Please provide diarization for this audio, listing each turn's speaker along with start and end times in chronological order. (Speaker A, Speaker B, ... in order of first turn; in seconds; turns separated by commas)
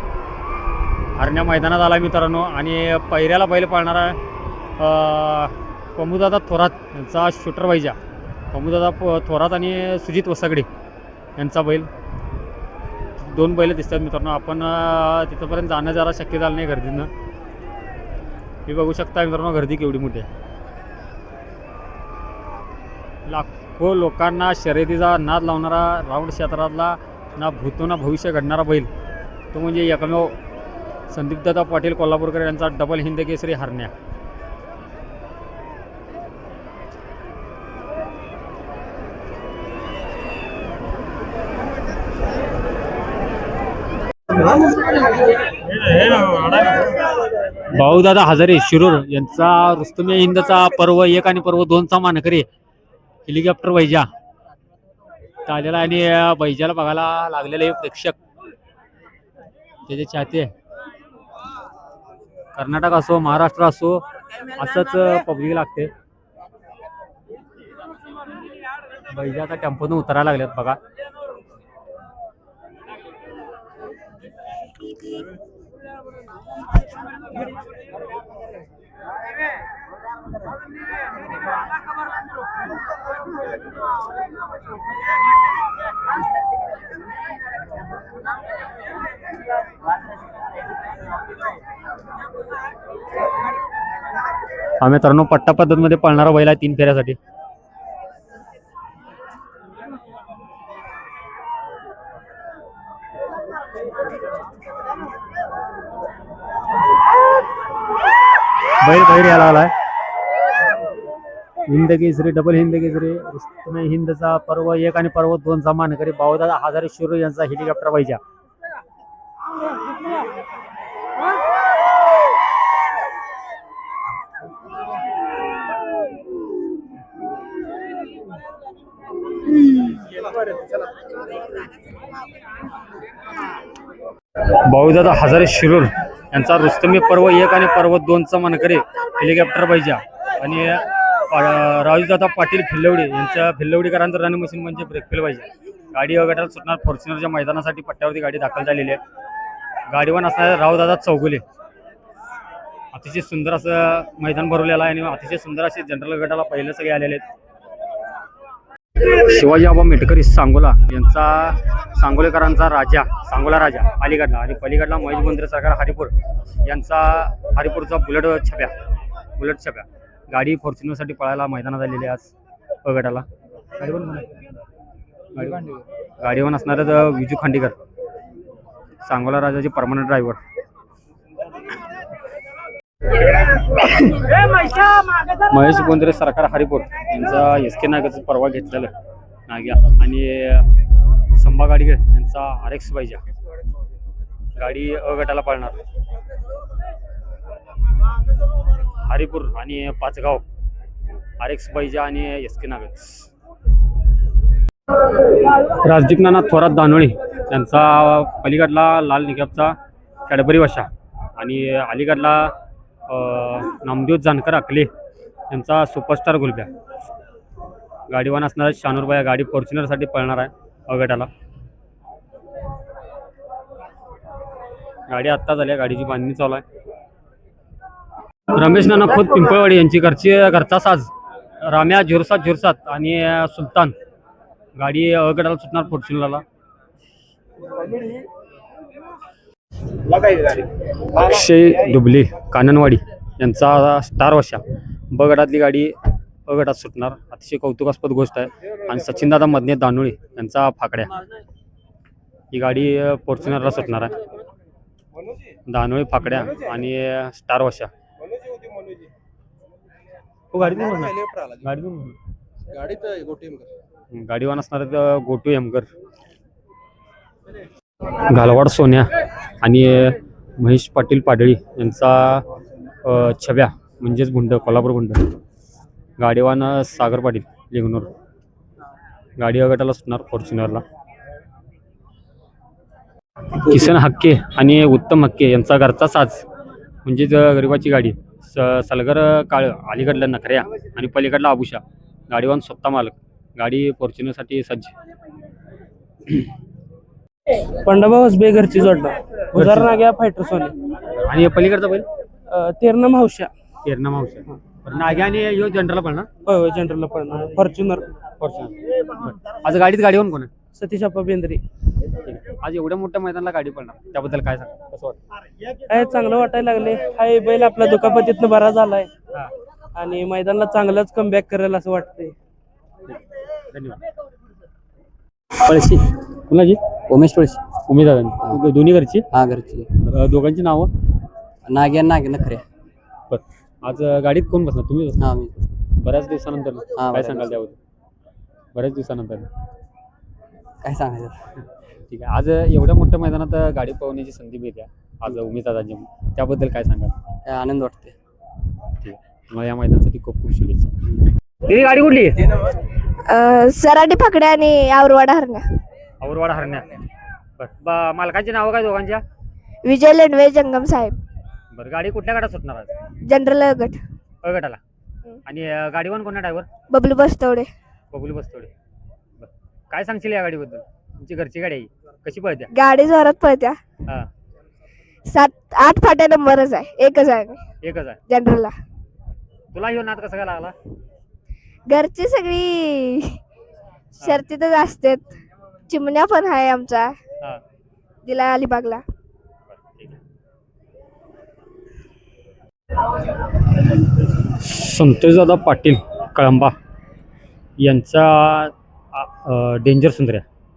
Speaker A: 1.2-4.2, Speaker A: 4.8-8.0, Speaker A: 8.5-10.7, Speaker A: 11.4-11.9, Speaker A: 13.2-17.1, Speaker A: 18.6-20.3, Speaker A: 23.2-28.9, Speaker A: 29.5-30.3, Speaker A: 31.1-33.9, Speaker A: 45.8-46.8, Speaker A: 47.7-52.5, Speaker A: 53.3-54.1, Speaker A: 55.5-58.1, Speaker A: 59.9-60.5, Speaker A: 62.5-65.9, Speaker A: 69.1-70.8, Speaker A: 94.8-97.2, Speaker A: 108.8-109.7, Speaker A: 111.7-118.2, Speaker A: 134.5-149.0, Speaker A: 149.9-151.4, Speaker A: 152.9-157.2, Speaker A: 159.0-166.1, Speaker A: 166.6-168.7, Speaker A: 169.4-172.3, Speaker A: 172.8-173.2, Speaker A: 173.8-174.2, Speaker A: 175.3-175.6, Speaker A: 176.2-177.7, Speaker A: 179.0-180.4, Speaker A: 183.5-184.3, Speaker A: 185.3-188.9, Speaker A: 189.5-190.7, Speaker A: 191.3-193.2, Speaker A: 194.6-195.8, Speaker A: 199.0-200.4, Speaker A: 201.4-203.3, Speaker A: 205.4-209.8, Speaker A: 210.3-212.5, Speaker A: 213.1-214.9, Speaker A: 215.5-216.7, Speaker A: 218.1-221.3, Speaker A: 225.1-226.6, Speaker A: 228.5-231.1, Speaker A: 231.6-233.9, Speaker A: 234.8-236.4, Speaker A: 241.0-245.9, Speaker A: 246.5-251.1, Speaker A: 252.5-254.2, Speaker A: 255.7-257.9, Speaker A: 260.5-262.2, Speaker A: 264.1-265.9, Speaker A: 268.1-269.1, Speaker A: 269.6-272.4, Speaker A: 273.0-275.2, Speaker A: 276.2-278.1, Speaker A: 279.4-280.8, Speaker A: 283.6-286.4, Speaker A: 287.0-294.9, Speaker B: 297.6-300.7, Speaker A: 299.5-299.9, Speaker A: 301.3-302.1, Speaker B: 302.5-303.5, Speaker A: 303.8-306.3, Speaker B: 306.4-308.1, Speaker A: 308.4-310.5, Speaker B: 310.7-311.6, Speaker A: 312.2-315.2, Speaker B: 315.9-319.1, Speaker B: 319.9-322.3, Speaker A: 323.7-324.0, Speaker A: 325.6-326.8, Speaker C: 327.1-327.6, Speaker A: 327.9-329.3, Speaker C: 329.3-329.9, Speaker A: 330.0-330.9, Speaker C: 331.6-332.6, Speaker A: 333.3-335.3, Speaker C: 335.2-335.5, Speaker A: 335.9-337.8, Speaker C: 337.0-337.5, Speaker A: 338.7-339.5, Speaker C: 340.8-341.4, Speaker A: 342.1-347.1, Speaker C: 347.4-348.1, Speaker A: 349.0-350.9, Speaker A: 351.6-352.5, Speaker D: 353.3-355.6, Speaker A: 356.2-356.9, Speaker A: 357.6-359.2, Speaker D: 359.9-361.1, Speaker A: 361.7-362.9, Speaker D: 363.2-364.0, Speaker A: 364.4-364.8, Speaker A: 365.4-366.7, Speaker D: 366.9-367.7, Speaker A: 368.1-368.7, Speaker A: 369.4-372.7, Speaker D: 372.7-373.8, Speaker D: 375.3-377.6, Speaker A: 377.8-378.2, Speaker D: 378.3-378.7, Speaker A: 379.7-380.7, Speaker D: 381.9-383.4, Speaker D: 384.2-385.2, Speaker D: 385.9-387.1, Speaker D: 388.2-389.0, Speaker A: 389.7-390.2, Speaker A: 394.2-396.7, Speaker A: 397.8-400.4